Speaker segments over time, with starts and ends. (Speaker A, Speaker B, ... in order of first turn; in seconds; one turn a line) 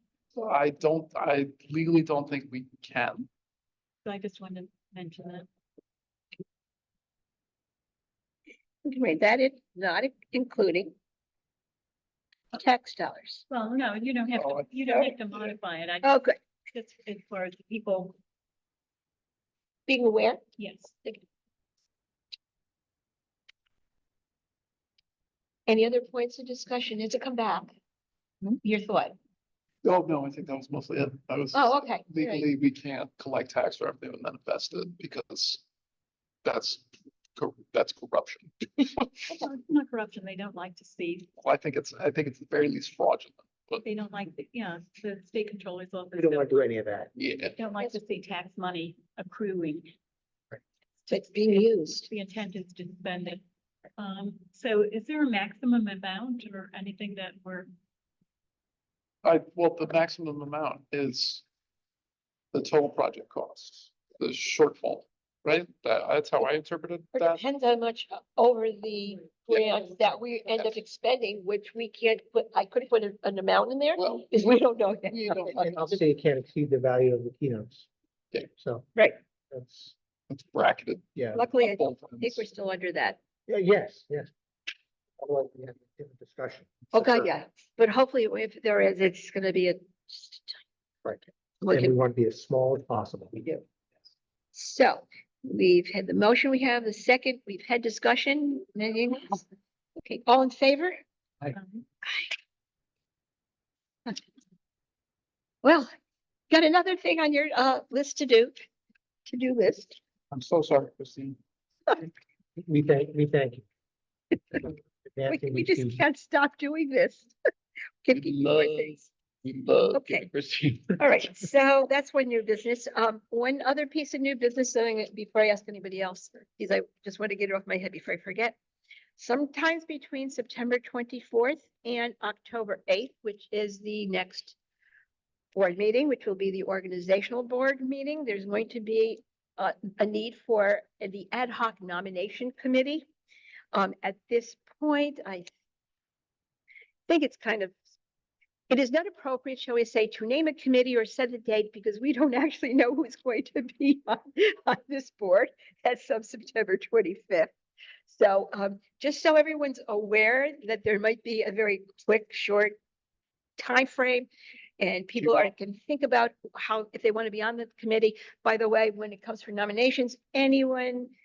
Speaker A: 0.3-3.3
Speaker B: 4.0-5.4
Speaker C: 8.8-10.9
Speaker C: 12.5-13.4
Speaker B: 13.5-18.1
Speaker C: 14.9-15.1
Speaker C: 16.0-16.3
Speaker C: 19.9-20.4
Speaker B: 20.6-20.9
Speaker C: 25.7-27.7
Speaker C: 28.4-29.1
Speaker A: 29.8-35.6
Speaker C: 31.5-32.5
Speaker A: 36.4-36.8
Speaker A: 37.4-38.9
Speaker B: 39.3-41.3
Speaker A: 41.4-43.8
Speaker B: 43.8-46.6
Speaker D: 46.1-47.1
Speaker A: 47.1-47.6
Speaker B: 47.6-49.9
Speaker C: 51.1-52.1
Speaker B: 52.0-53.4
Speaker B: 54.0-57.7
Speaker A: 59.2-61.4
Speaker A: 62.5-67.4
Speaker C: 67.1-75.6
Speaker A: 74.0-74.4
Speaker A: 75.1-75.8
Speaker D: 75.5-77.9
Speaker D: 78.5-78.8
Speaker D: 79.5-79.9
Speaker A: 80.3-82.4
Speaker D: 81.2-81.4
Speaker C: 81.3-83.2
Speaker D: 83.5-84.3
Speaker D: 85.2-86.7
Speaker C: 86.9-90.6
Speaker D: 91.0-93.5
Speaker C: 91.6-91.9
Speaker C: 94.5-99.4
Speaker C: 100.0-101.0
Speaker B: 101.5-101.8
Speaker C: 102.0-102.3
Speaker C: 105.6-105.9
Speaker C: 106.5-108.5
Speaker C: 109.3-110.0
Speaker A: 110.3-111.4
Speaker D: 112.6-113.6
Speaker D: 115.1-116.0
Speaker C: 115.3-117.3
Speaker C: 118.0-119.0
Speaker A: 118.1-121.0
Speaker C: 119.9-120.3
Speaker C: 121.0-128.6
Speaker C: 129.2-134.6
Speaker C: 135.5-143.1
Speaker C: 143.7-145.5
Speaker C: 147.1-147.8
Speaker C: 148.7-157.5
Speaker C: 158.1-162.8
Speaker C: 163.6-164.3
Speaker C: 164.8-171.1